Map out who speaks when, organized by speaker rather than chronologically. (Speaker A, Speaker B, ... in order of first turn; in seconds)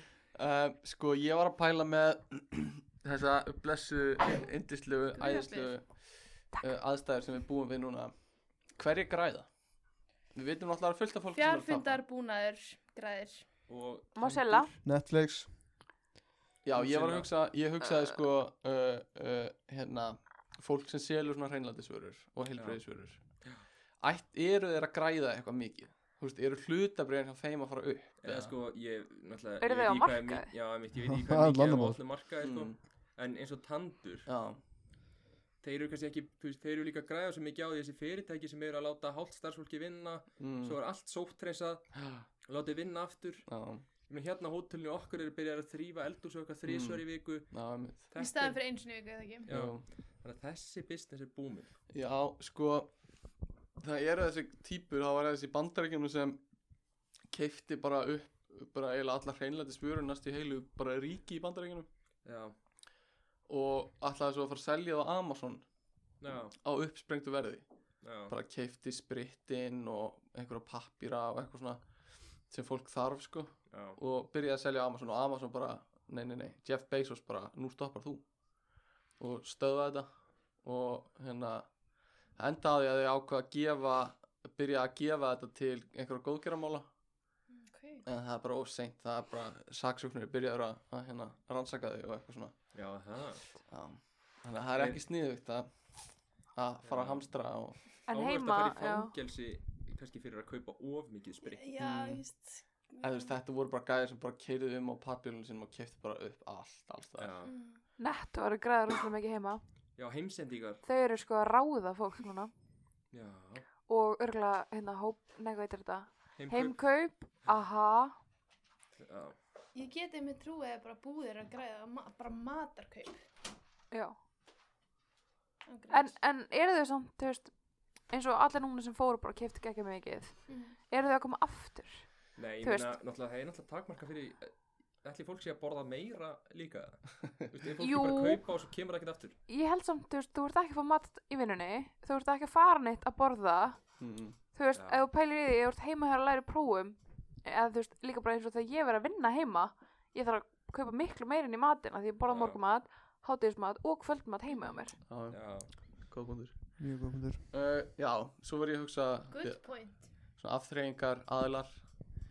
Speaker A: 0.3-8.1, 8.7-9.5, 10.3-12.0, 16.6-23.2, 24.0-28.5, 32.4-32.8, 34.2-34.6, 40.4-40.8, 42.0-42.2, 43.5-43.8, 46.6-48.1, 49.5-49.8, 51.9-52.9, 53.8-56.4, 57.3-61.9, 63.5-65.6, 66.6-67.6, 68.3-71.8, 72.5-78.2, 79.2-80.1, 80.6-81.7, 82.3-86.9, 88.0-92.6, 93.7-95.7, 96.5-97.8, 101.8-102.2, 103.0-107.3, 144.0-144.4, 155.0-156.8, 157.5-161.9
Speaker B: 5.2-5.7, 11.3-13.4, 48.2-49.5, 87.5-88.0, 101.4-103.3, 107.4-107.8, 119.7-123.2, 125.7-126.1, 130.5-130.8, 159.3-160.1
Speaker C: 13.7-14.8, 16.7-17.3, 22.5-22.8, 28.2-34.3, 35.6-41.9, 42.4-43.5, 44.1-48.6, 49.5-51.8, 62.2-62.5, 66.2-66.5, 68.0-68.3, 73.7-74.0, 92.7-93.5, 94.7-95.0, 96.8-97.2, 98.1-101.6, 107.2-107.5, 110.0-110.8, 113.1-113.7, 116.4-116.8, 119.0-119.3, 132.3-139.3, 144.7-145.0, 152.3-152.6, 155.3-155.7
Speaker D: 14.2-14.7, 29.6-30.5, 98.1-99.1, 108.0-109.6, 110.8-112.5, 113.9-118.2, 123.9-124.2, 125.9-132.9, 137.8-138.4, 139.5-144.0, 144.5-154.9
Speaker E: 14.8-15.5, 31.1-32.0, 156.8-157.4